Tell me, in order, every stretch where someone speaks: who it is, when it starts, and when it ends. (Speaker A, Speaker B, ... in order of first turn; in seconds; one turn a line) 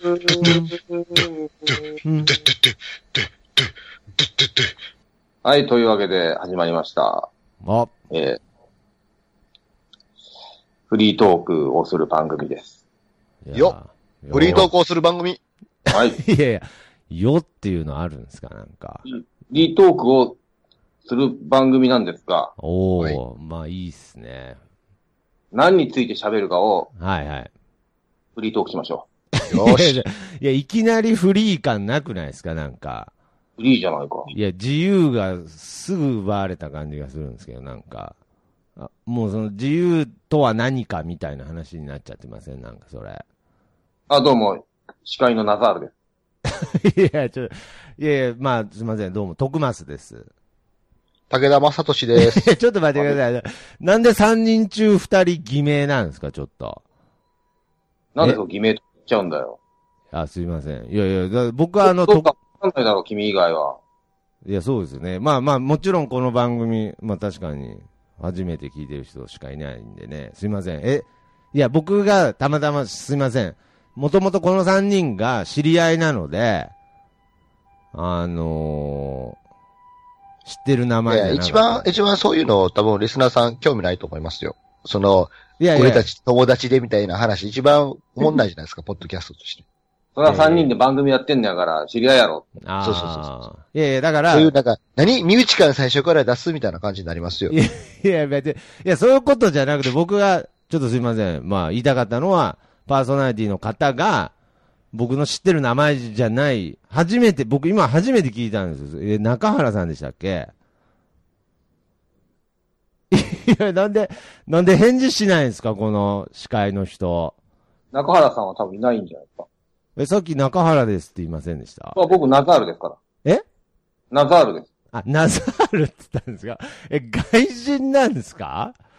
Speaker A: 0.3-0.8
Speaker A: 2.0-2.4
Speaker B: 5.4-7.3
Speaker A: 7.6-7.9
Speaker B: 8.1-8.4
Speaker B: 10.9-12.8
Speaker A: 13.4-14.7
Speaker C: 14.3-15.4
Speaker A: 15.9-19.1
Speaker B: 15.9-16.2
Speaker B: 19.1-20.4
Speaker B: 21.1-22.5
Speaker A: 22.6-24.6
Speaker B: 25.5-26.9
Speaker A: 27.0-27.5
Speaker B: 28.4-29.1
Speaker A: 29.4-33.1
Speaker C: 29.5-30.0
Speaker B: 33.6-34.3
Speaker A: 34.3-38.1
Speaker A: 38.8-43.2
Speaker B: 44.1-45.9
Speaker A: 46.5-50.3
Speaker C: 51.3-52.5
Speaker A: 52.1-56.8
Speaker B: 58.1-59.6
Speaker A: 60.1-62.3
Speaker B: 61.8-63.8
Speaker A: 64.5-76.7
Speaker A: 77.9-79.4
Speaker A: 80.5-82.0
Speaker C: 81.1-89.7
Speaker A: 85.6-86.1
Speaker B: 90.2-92.5
Speaker A: 90.2-90.7
Speaker A: 92.6-94.5
Speaker C: 92.8-93.3
Speaker C: 94.3-97.6
Speaker A: 97.5-104.3
Speaker A: 104.9-110.5
Speaker A: 113.1-117.4
Speaker B: 117.9-119.5
Speaker A: 120.0-122.1
Speaker B: 122.0-123.0
Speaker B: 124.1-124.7
Speaker A: 124.9-128.8